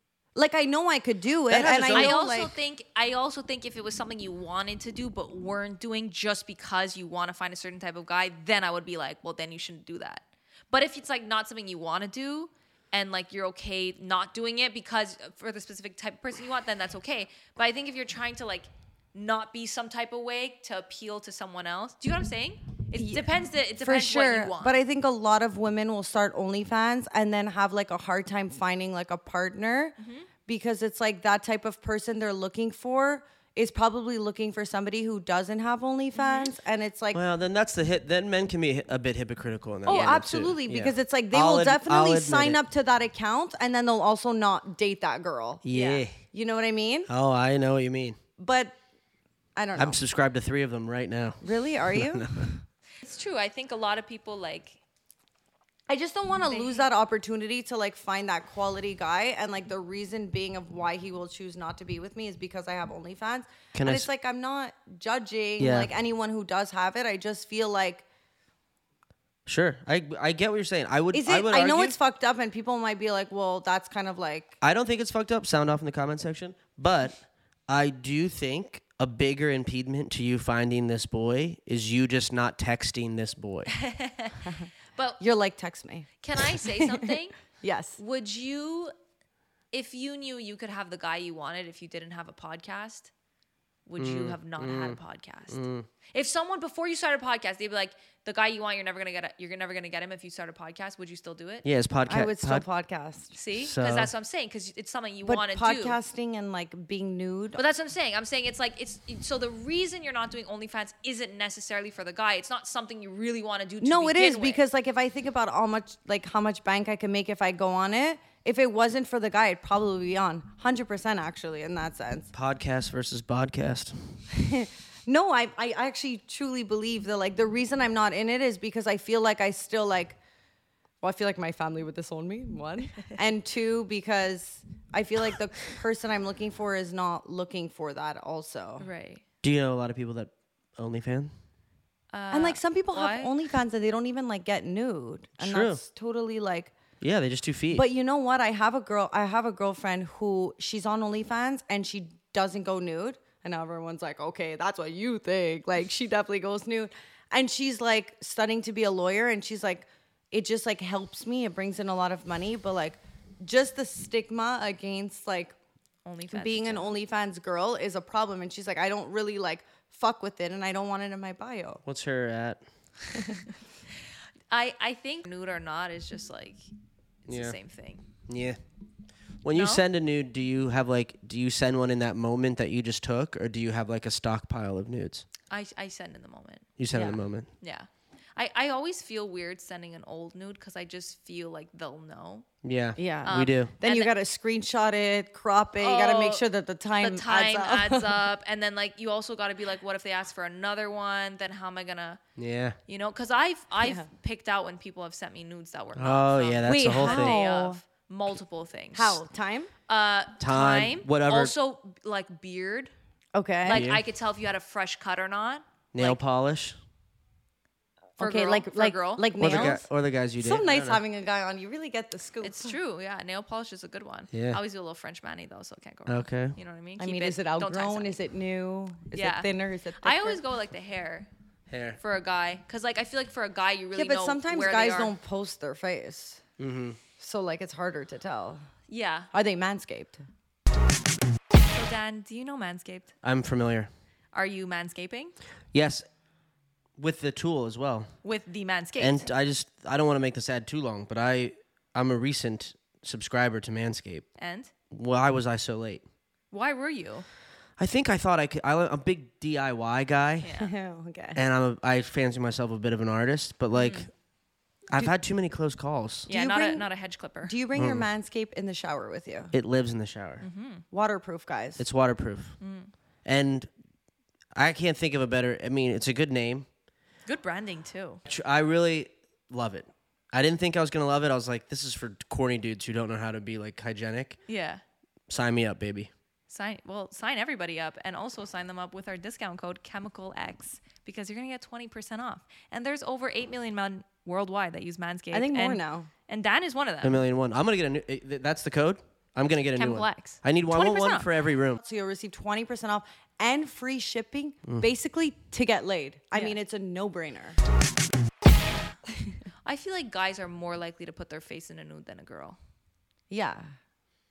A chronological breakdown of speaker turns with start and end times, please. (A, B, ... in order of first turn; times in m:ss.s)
0:00.3-0:02.5 A
0:01.5-0:02.2 B
0:01.9-0:24.8 C
0:23.0-0:37.2 A
0:30.0-0:30.3 C
0:36.2-0:36.5 C
0:37.1-0:42.6 B
0:39.9-0:40.2 C
0:39.9-0:47.1 A
0:45.6-0:46.2 B
0:47.1-0:48.2 B
0:48.4-0:48.8 A
0:49.6-0:50.0 A
0:49.8-0:51.4 B
0:51.4-0:52.4 A
0:51.9-0:52.5 B
0:53.0-0:54.8 C
0:55.9-1:08.0 A
0:56.5-0:56.8 C
1:03.7-1:04.1 B
1:05.6-1:05.9 B
1:09.4-1:12.0 B
1:11.1-1:14.6 A
1:14.6-1:23.7 B
1:23.7-1:25.2 C
1:25.2-1:28.0 A
1:26.2-1:27.4 C
1:28.0-1:28.9 C
1:29.7-1:33.1 C
1:33.8-1:41.6 C
1:34.0-1:35.9 B
1:41.6-1:42.6 B
1:42.1-1:43.3 A
1:43.3-1:46.0 C
1:43.6-1:44.1 B
1:45.2-1:47.6 A
1:47.6-1:54.6 C
1:53.8-2:02.3 A
2:02.3-2:04.2 B
2:04.3-2:10.2 A
2:11.0-2:18.9 A
2:18.8-2:19.2 C
2:19.4-2:21.3 B
2:22.1-2:23.3 C
2:22.3-2:26.7 A
2:25.4-2:25.8 B
2:27.0-2:27.8 B
2:27.7-2:45.5 A
2:46.0-2:46.9 C
2:46.3-2:51.8 A
2:51.8-2:52.6 B
2:54.5-2:56.6 C
2:57.3-2:58.0 C
2:57.3-2:57.6 B
2:58.3-2:58.6 B
2:59.4-3:05.2 B
2:59.5-2:59.8 C
3:05.5-3:12.5 C
3:06.8-3:07.5 B
3:12.6-3:13.7 B
3:13.0-3:18.2 A
3:13.2-3:14.1 C
3:15.8-3:16.4 C
3:17.0-3:22.2 C
3:22.4-3:22.8 B
3:22.9-3:29.2 C
3:23.8-3:24.1 A
3:26.0-3:27.4 B
3:26.6-3:27.8 A
3:28.9-3:29.7 A
3:29.9-3:32.9 C
3:30.4-3:31.5 B
3:33.3-3:33.8 A
3:33.6-3:36.2 C
3:33.7-3:34.0 B
3:35.9-3:36.8 B
3:38.2-3:39.9 A
3:38.2-3:39.7 C
3:39.4-3:41.0 B
3:40.4-3:42.8 A
3:42.4-3:48.2 C
3:44.3-3:44.6 B
3:46.1-3:46.6 B
3:47.0-3:50.4 A
3:49.1-3:49.5 C
3:50.0-3:51.3 C
3:51.7-3:52.0 B
3:52.0-3:55.1 C
3:53.9-3:56.4 A
3:56.6-3:57.0 B
3:57.2-3:58.6 A
3:58.9-3:59.3 C
3:59.3-4:00.2 A
4:01.6-4:03.1 C
4:03.2-4:03.9 B
4:04.3-4:05.3 C
4:05.7-4:06.0 B
4:07.0-4:08.1 B
4:08.2-4:09.3 C
4:09.0-4:14.2 B
4:14.4-4:14.7 C
4:14.9-4:16.0 B
4:16.5-4:17.2 C
4:17.8-4:20.5 B
4:20.4-4:20.7 C
4:20.6-4:21.4 A
4:21.3-4:24.1 B
4:23.7-4:24.1 C
4:24.9-4:26.3 B
4:26.3-4:27.6 C
4:26.3-4:26.9 A
4:27.4-4:29.5 A
4:27.7-4:28.1 B
4:29.5-4:30.4 B
4:30.4-4:30.8 C
4:30.9-4:31.8 A
4:31.8-4:32.6 B
4:32.6-4:32.9 C
4:33.2-4:33.7 B
4:34.5-4:36.7 B
4:37.2-4:38.2 C
4:38.3-4:44.4 B
4:44.5-4:44.8 C
4:45.3-4:46.1 B
4:46.5-4:57.2 C
4:55.3-4:56.1 A
4:57.0-5:01.8 B
4:59.7-5:01.3 C
5:01.8-5:07.6 A
5:09.6-5:12.6 C
5:13.3-5:13.7 A